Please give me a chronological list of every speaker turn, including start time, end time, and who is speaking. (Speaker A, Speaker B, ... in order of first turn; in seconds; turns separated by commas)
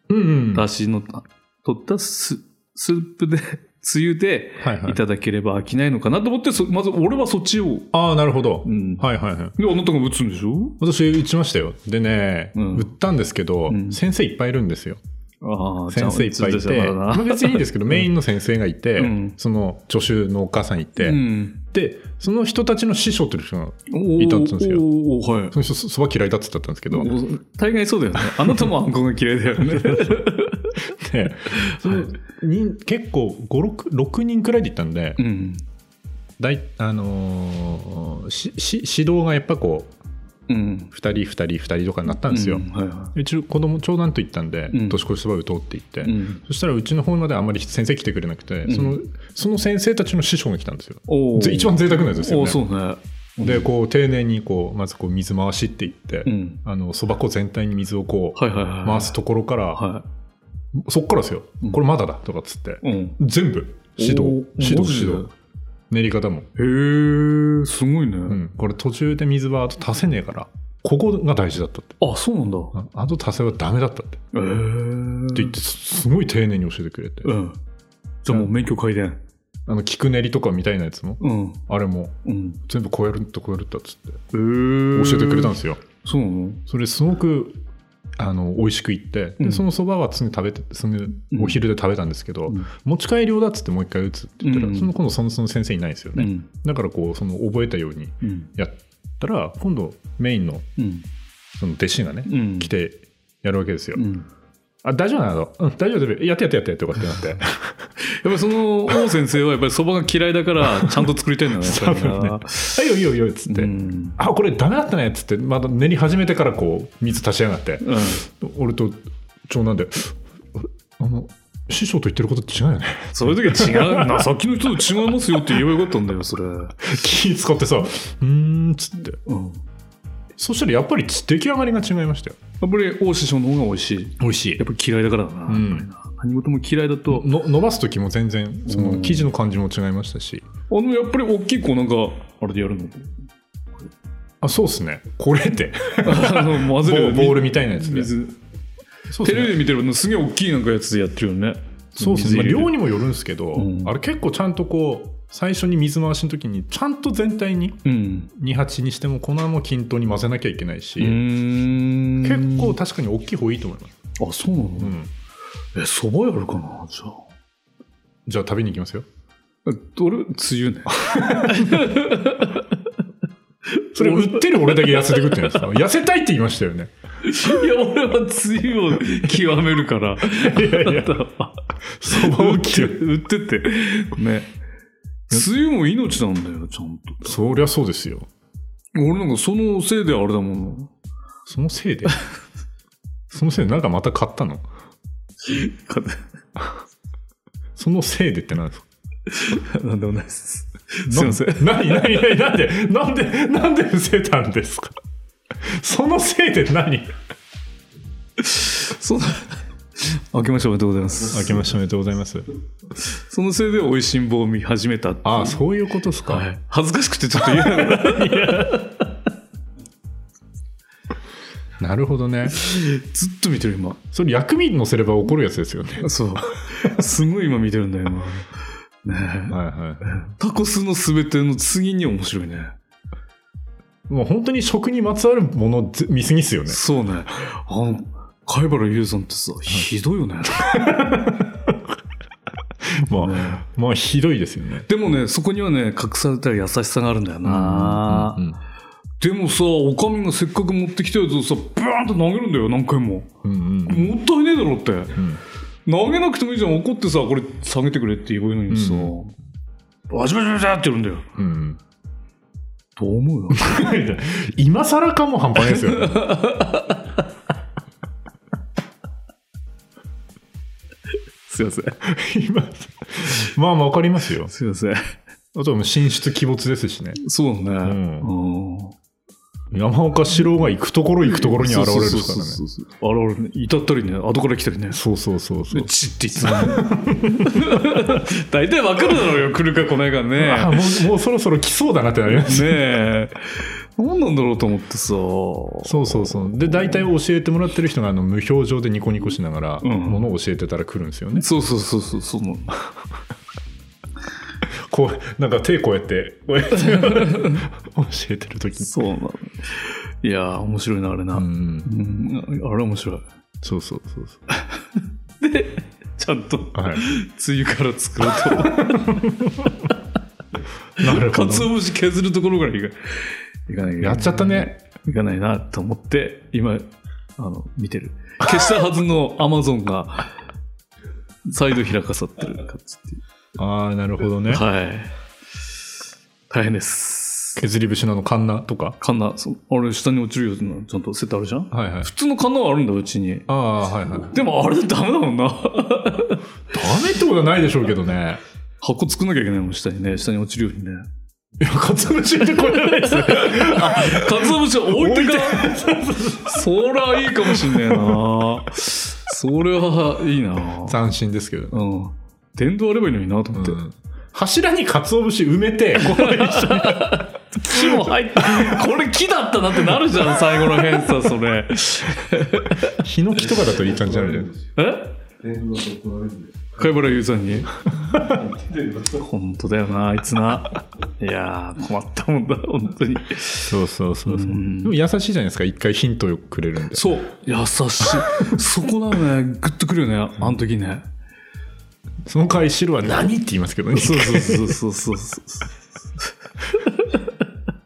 Speaker A: 0.1-0.7, Speaker B: 0.5-7.9, Speaker A: 4.6-5.0, Speaker A: 7.9-9.6, Speaker B: 8.6-10.8, Speaker A: 10.8-15.0, Speaker B: 12.6-12.9, Speaker B: 13.7-14.0, Speaker B: 15.4-18.1, Speaker A: 15.9-24.9, Speaker B: 19.0-19.4, Speaker B: 21.0-21.6, Speaker B: 23.9-25.6, Speaker A: 25.5-27.2, Speaker B: 26.9-30.8, Speaker A: 28.2-28.7, Speaker A: 29.7-30.1, Speaker A: 30.9-35.2, Speaker B: 31.5-32.0, Speaker B: 35.2-35.6, Speaker A: 36.4-39.9, Speaker B: 40.5-40.9, Speaker A: 40.9-52.6, Speaker B: 42.2-43.1, Speaker B: 44.7-45.0, Speaker B: 46.0-46.4, Speaker B: 48.6-49.0, Speaker B: 51.1-53.7, Speaker A: 53.4-59.8, Speaker B: 56.2-56.6, Speaker B: 58.4-59.2, Speaker B: 59.7-60.0, Speaker A: 60.7-65.3, Speaker B: 62.8-63.2, Speaker B: 64.0-65.3, Speaker A: 65.9-66.5, Speaker B: 66.6-68.4, Speaker A: 68.3-72.0, Speaker B: 72.0-72.7, Speaker A: 72.7-74.2, Speaker B: 74.3-75.6, Speaker A: 75.3-77.3, Speaker B: 77.2-77.6, Speaker B: 78.2-79.2, Speaker A: 79.7-84.2, Speaker B: 81.2-81.6, Speaker B: 82.2-82.6, Speaker B: 84.3-86.6, Speaker A: 84.9-85.8, Speaker A: 86.7-87.6, Speaker A: 88.2-100.7, Speaker B: 89.4-89.7, Speaker B: 91.3-91.6, Speaker B: 94.4-94.9, Speaker B: 96.2-96.5, Speaker B: 98.2-98.5, Speaker B: 100.8-101.1, Speaker A: 101.6-104.1, Speaker B: 102.2-102.7, Speaker B: 104.0-104.3, Speaker A: 104.8-107.9, Speaker B: 108.0-112.8, Speaker A: 110.8-124.3, Speaker B: 113.5-114.2, Speaker B: 117.8-118.2, Speaker B: 123.1-126.9, Speaker A: 125.3-125.7, Speaker A: 126.8-129.2, Speaker B: 129.2-129.6, Speaker A: 130.4-132.4, Speaker B: 132.6-137.3, Speaker A: 134.2-134.6, Speaker A: 135.5-135.9, Speaker A: 137.1-140.5, Speaker B: 138.7-139.3, Speaker B: 140.7-143.1, Speaker A: 144.4-148.1, Speaker B: 146.0-148.4, Speaker A: 149.1-149.6, Speaker B: 149.2-152.8, Speaker A: 152.0-157.8, Speaker B: 153.6-153.9, Speaker B: 157.8-158.3, Speaker A: 158.3-161.2, Speaker B: 161.0-162.8, Speaker A: 162.2-163.9, Speaker B: 164.2-165.0, Speaker A: 164.8-165.1, Speaker B: 165.8-167.2, Speaker A: 168.2-169.1, Speaker B: 169.7-172.9, Speaker A: 171.0-171.9, Speaker B: 173.7-175.7, Speaker A: 173.9-176.9, Speaker B: 177.2-184.5, Speaker A: 180.3-181.2, Speaker A: 182.0-183.0, Speaker B: 185.3-187.4, Speaker A: 187.2-188.3, Speaker B: 188.9-190.9, Speaker A: 191.5-192.2, Speaker A: 193.3-194.7, Speaker B: 195.4-196.2, Speaker A: 197.8-198.8, Speaker B: 199.3-202.3, Speaker A: 201.1-205.0, Speaker A: 205.6-207.1, Speaker B: 208.4-211.7, Speaker A: 211.3-212.5, Speaker B: 213.0-215.6, Speaker A: 215.2-216.5, Speaker B: 216.2-219.2, Speaker A: 217.5-218.8, Speaker A: 221.8-222.7, Speaker B: 222.5-224.0, Speaker A: 224.1-226.2, Speaker B: 226.0-228.5, Speaker B: 229.0-232.8, Speaker A: 229.5-230.1, Speaker A: 234.1-236.8, Speaker B: 236.7-241.0, Speaker A: 240.6-241.9, Speaker A: 242.8-244.9, Speaker B: 243.2-243.6, Speaker B: 244.9-248.4, Speaker A: 247.4-248.6, Speaker B: 249.2-253.3, Speaker A: 253.4-254.2, Speaker B: 253.8-255.2, Speaker A: 255.2-255.4, Speaker B: 255.9-259.3, Speaker A: 258.7-259.1, Speaker B: 260.1-261.3, Speaker A: 261.4-261.8, Speaker B: 263.0-263.7, Speaker A: 263.5-266.3, Speaker B: 265.7-267.2, Speaker B: 271.5-272.0, Speaker A: 272.0-274.5, Speaker B: 274.5-275.1, Speaker A: 275.6-277.2, Speaker B: 277.2-279.0, Speaker A: 277.8-278.3, Speaker A: 279.7-282.6, Speaker B: 281.2-285.0, Speaker A: 284.9-288.0, Speaker B: 285.7-291.1, Speaker A: 290.4-292.9, Speaker B: 292.3-297.1, Speaker A: 295.8-301.5, Speaker B: 299.8-300.2, Speaker B: 301.3-302.8, Speaker A: 304.7-308.9, Speaker B: 306.8-307.6, Speaker B: 308.8-313.2, Speaker A: 311.3-311.9, Speaker A: 313.6-314.4, Speaker B: 314.5-319.4, Speaker A: 316.8-317.1, Speaker A: 318.5-319.7, Speaker A: 321.0-321.7, Speaker B: 321.0-330.3, Speaker A: 324.0-324.7, Speaker B: 331.4-333.2, Speaker A: 333.6-334.6, Speaker B: 334.5-335.1, Speaker B: 336.5-337.6, Speaker A: 337.6-339.0, Speaker B: 339.0-343.5, Speaker A: 341.7-342.1, Speaker A: 343.5-344.3, Speaker B: 344.1-346.4, Speaker A: 346.7-348.4, Speaker B: 348.8-351.0, Speaker A: 351.6-356.7, Speaker B: 352.6-361.0, Speaker A: 357.4-358.3, Speaker A: 360.8-361.8, Speaker B: 361.7-363.8, Speaker A: 363.5-368.8, Speaker B: 366.0-372.9, Speaker A: 372.8-374.5, Speaker C: 373.7-374.7, Speaker B: 374.8-375.1, Speaker C: 375.4-377.2, Speaker B: 376.8-377.8, Speaker A: 378.0-378.4, Speaker C: 378.1-379.2, Speaker B: 379.1-383.8, Speaker A: 383.7-387.1, Speaker B: 384.2-385.0, Speaker B: 386.9-391.0, Speaker A: 392.2-394.8, Speaker B: 393.9-397.4